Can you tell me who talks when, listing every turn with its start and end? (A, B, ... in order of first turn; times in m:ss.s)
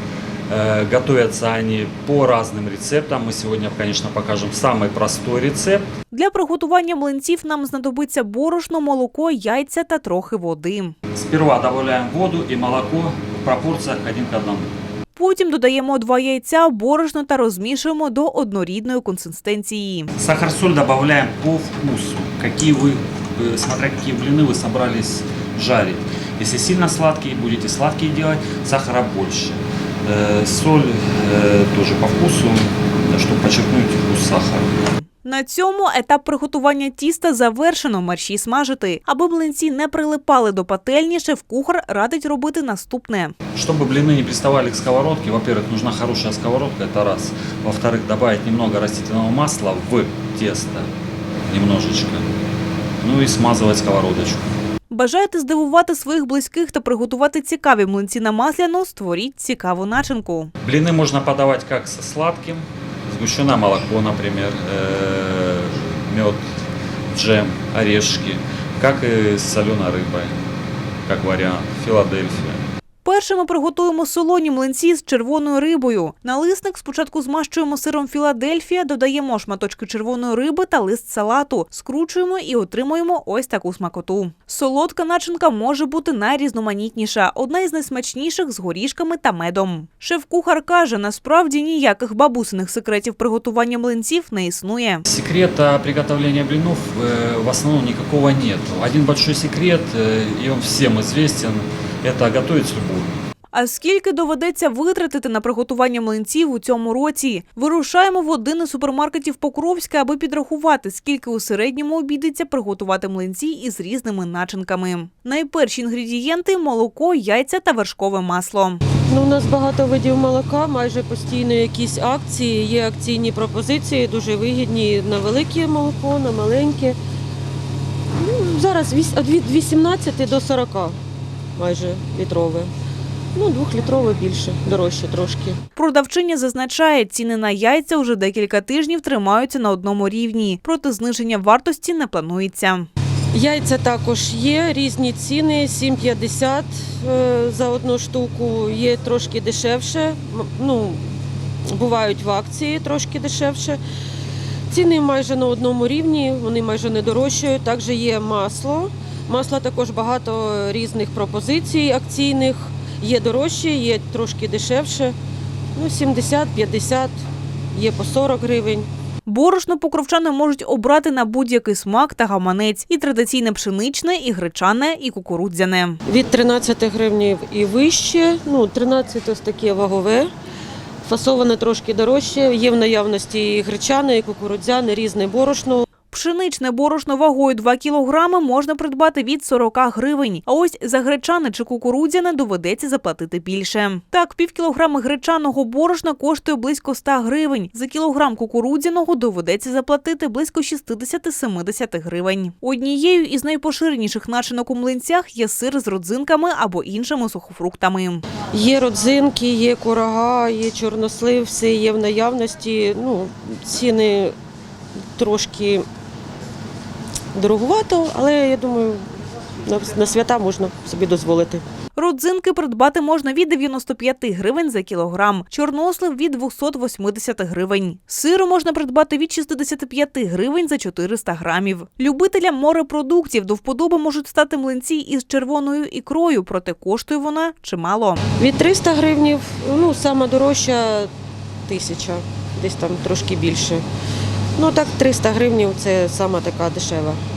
0:00.5-0:05.8 A
0:06.1-0:11.0 B
0:11.1-0:14.7 A
0:15.2-0:20.1 B
0:20.2-0:35.0 A
0:35.2-0:43.3 B
0:43.6-0:50.9 A
0:51.5-0:52.3 A
0:53.0-0:54.5 A
0:54.9-1:00.5 B
1:00.6-1:06.4 A
1:07.1-1:10.4 A
1:11.1-1:12.6 A
1:13.0-1:35.0 B
1:35.1-1:43.2 A
1:43.5-1:58.8 B
1:59.1-2:07.0 C
2:08.2-2:11.0 C
2:11.6-2:12.7 C
2:13.3-2:15.6 C
2:15.7-2:22.9 B
2:23.3-2:31.0 C
2:31.7-2:33.8 C
2:34.7-2:45.1 C
2:45.7-2:47.2 C
2:47.7-2:48.9 C
2:49.2-2:56.0 B
2:56.1-3:00.3 C
3:01.0-3:05.8 C
3:06.1-3:28.2 B
3:28.5-3:34.3 C
3:35.2-3:35.8 C
3:37.3-3:39.1 C
3:39.6-3:41.6 C
3:42.0-3:58.2 B
3:58.4-4:01.1 C
4:01.7-4:03.8 C
4:04.6-4:07.2 C